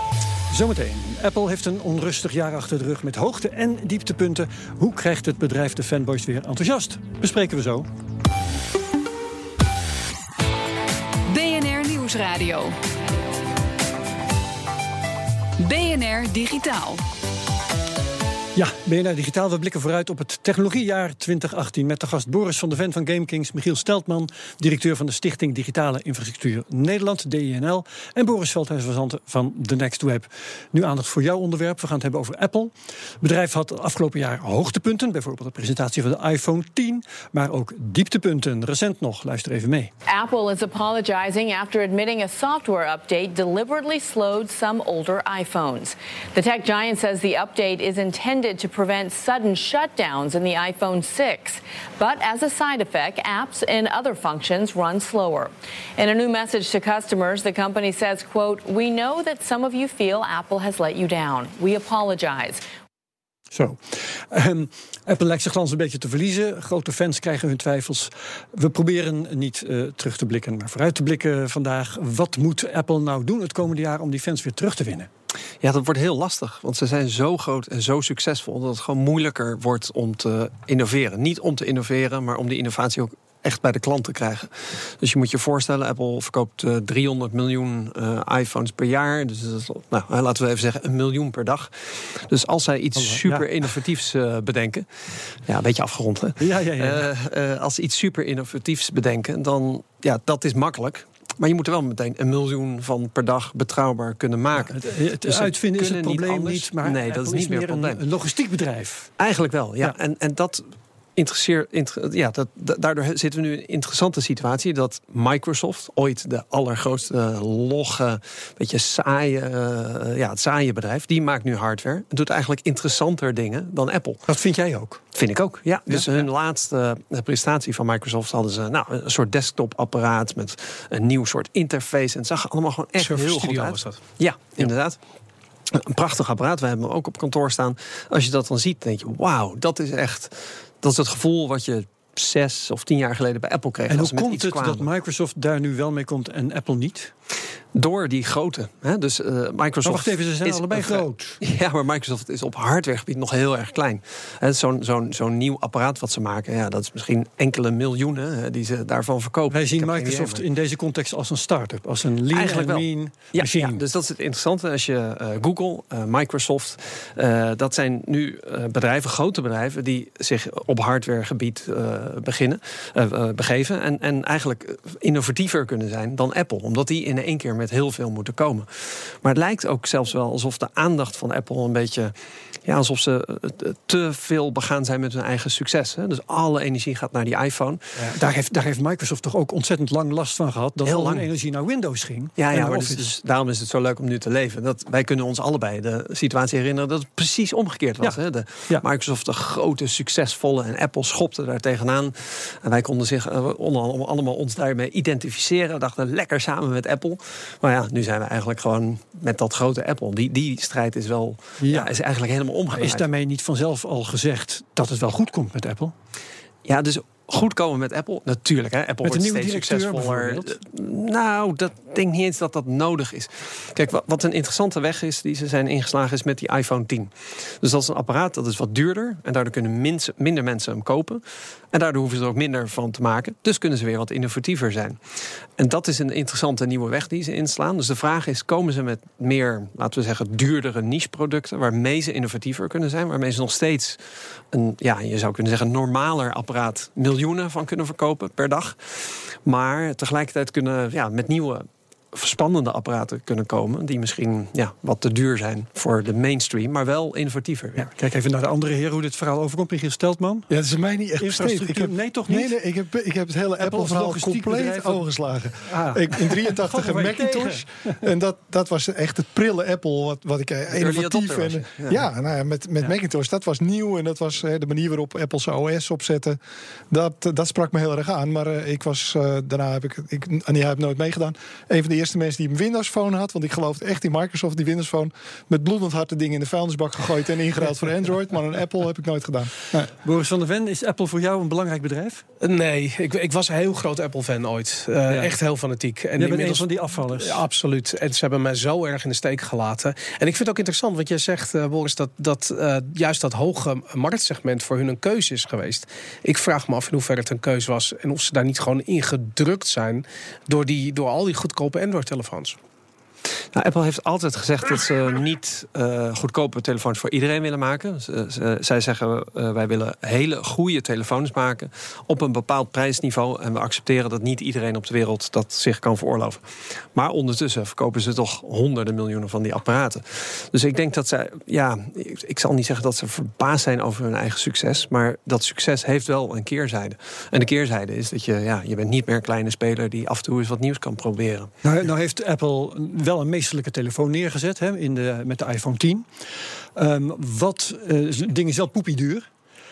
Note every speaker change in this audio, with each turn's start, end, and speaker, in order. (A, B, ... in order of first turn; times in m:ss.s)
0:00.5-0:07.9 A
0:11.3-0:12.8 B
0:15.6-0:17.0 B
0:18.6-0:39.9 A
0:40.1-1:02.6 C
1:03.5-1:15.1 A
1:15.6-1:48.0 D
1:33.0-1:33.5 A
1:36.4-1:37.1 A
1:44.6-1:49.1 A
1:49.2-1:50.6 D
1:51.2-2:04.2 D
2:04.3-2:05.0 A
2:05.1-2:15.0 D
2:13.0-2:14.0 E
2:15.7-2:24.9 D
2:23.9-2:27.1 A
2:27.7-2:40.4 D
2:29.8-2:31.4 A
2:39.5-2:43.8 A
2:42.3-3:02.1 D
3:02.6-3:08.1 D
3:08.0-3:13.1 A
3:10.8-3:11.3 D
3:12.4-3:33.1 D
3:18.0-3:18.8 A
3:31.6-3:31.9 A
3:32.8-3:35.9 A
3:36.6-3:55.0 D
3:39.0-3:40.5 A
3:55.6-4:04.0 D
4:04.5-4:17.9 D
4:17.8-4:20.5 A
4:20.5-4:36.4 F
4:21.2-4:22.6 A
4:23.6-4:28.0 A
4:30.7-4:32.0 D
4:36.9-4:49.9 F
4:50.0-4:52.2 A
4:52.4-5:12.6 E
4:56.2-4:57.4 A
5:13.5-5:41.5 D
5:41.6-5:46.1 A
5:46.8-5:49.3 A